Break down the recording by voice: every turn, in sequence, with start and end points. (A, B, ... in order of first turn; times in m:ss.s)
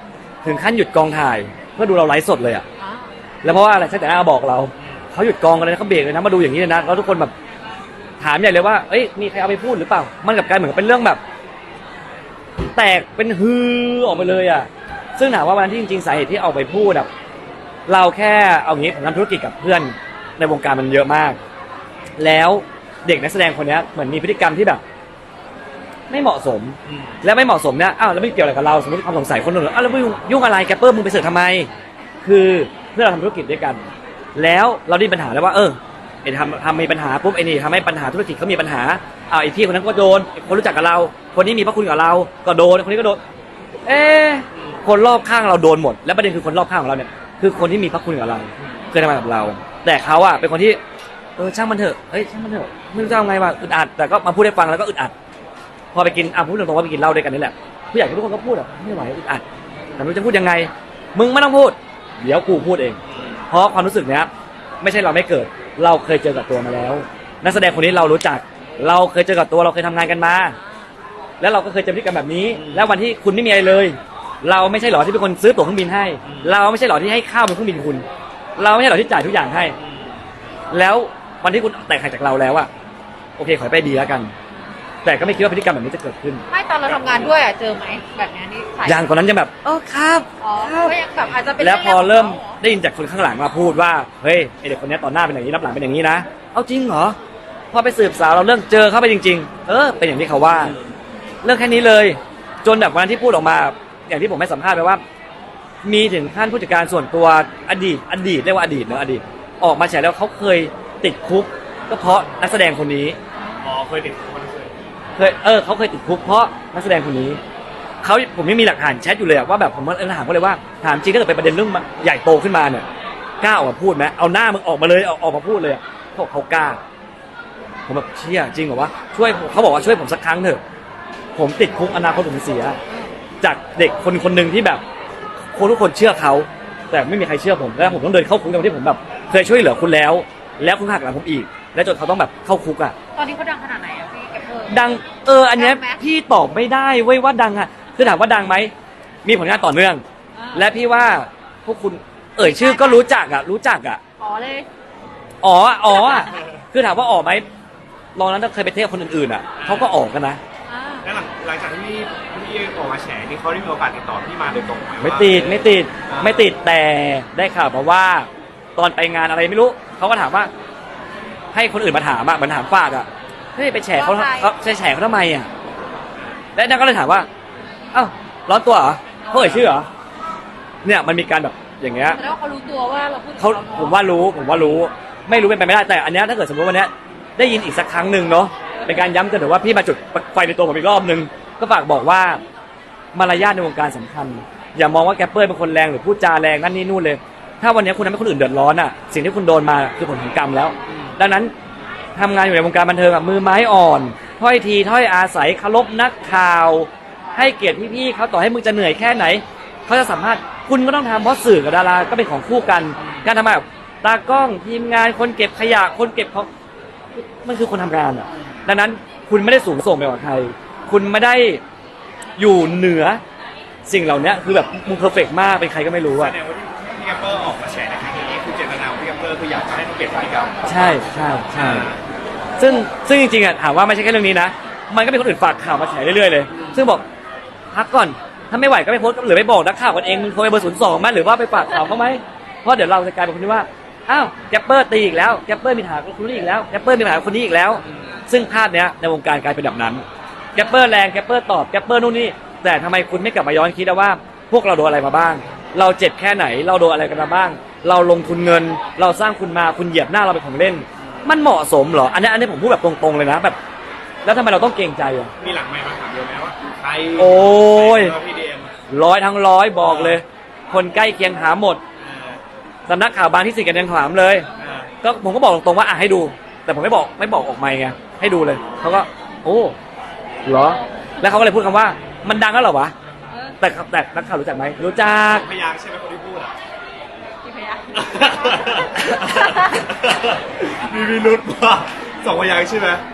0:00.4-0:02.6 A
0:02.8-0:03.1 B
0:03.4-0:07.3 A
0:08.2-0:11.2 A
0:12.7-0:17.1 A
0:17.9-0:21.4 A
0:22.2-0:24.8 A
0:26.1-0:31.7 A
0:26.9-0:27.2 C
0:32.2-0:33.8 A
0:34.3-0:43.2 A
0:43.8-0:50.8 A
0:51.4-0:55.1 A
0:55.9-0:59.4 A
1:00.0-1:03.0 A
1:03.1-1:03.4 C
1:03.5-1:04.3 A
1:04.8-1:10.6 A
1:11.4-1:18.0 A
1:12.5-1:12.9 C
1:16.2-1:16.5 C
1:18.6-1:19.8 A
1:19.8-1:20.2 C
1:20.7-1:22.7 A
1:23.4-1:24.3 A
1:25.0-1:26.4 A
1:26.5-1:29.1 B
1:28.8-1:30.9 A
1:30.4-1:32.6 B
1:31.6-1:37.2 A
1:37.7-1:40.8 A
1:41.4-1:45.0 A
1:45.8-1:53.2 A
1:53.6-1:54.7 C
1:55.2-1:57.4 A
1:58.0-2:02.8 A
2:03.4-2:06.8 A
2:07.9-2:10.6 A
2:11.4-2:12.8 A
2:13.4-2:14.8 A
2:15.5-2:22.9 A
2:23.2-2:24.7 B
2:24.7-2:28.7 A
2:25.5-2:26.0 B
2:29.2-2:30.0 A
2:30.4-2:30.7 B
2:30.5-2:34.0 A
2:32.4-2:33.0 B
2:34.2-2:34.7 B
2:35.4-2:37.5 A
2:38.1-2:40.4 A
2:39.6-2:39.9 C
2:40.7-2:41.1 B
2:41.0-2:46.5 C
2:45.0-2:50.5 A
2:51.5-2:55.5 A
2:53.9-2:54.5 B
2:56.6-2:57.3 A
2:57.9-2:59.9 A
3:00.8-3:02.2 A
3:02.1-3:04.0 B
3:03.4-3:12.4 A
3:13.1-3:21.5 A
3:22.2-3:36.5 A
3:33.0-3:33.2 C
3:37.1-3:41.6 A
3:38.3-3:38.6 C
3:42.4-3:43.2 A
3:43.8-3:46.3 A
3:46.1-3:50.6 C
3:50.6-3:51.9 A
3:51.5-3:52.0 C
3:52.6-3:57.0 A
3:56.5-3:56.8 C
3:57.7-4:23.6 A
4:24.2-4:25.3 A
4:25.4-4:28.8 C
4:27.2-4:28.1 A
4:28.9-4:31.8 A
4:29.8-4:30.2 C
4:32.0-4:32.4 C
4:32.9-4:34.5 A
4:34.6-4:34.9 C
4:35.0-4:39.7 A
4:40.4-4:42.9 A
4:43.6-4:45.5 A
4:45.3-4:46.5 C
4:47.4-4:47.9 B
4:47.9-4:53.0 C
4:48.5-4:49.8 B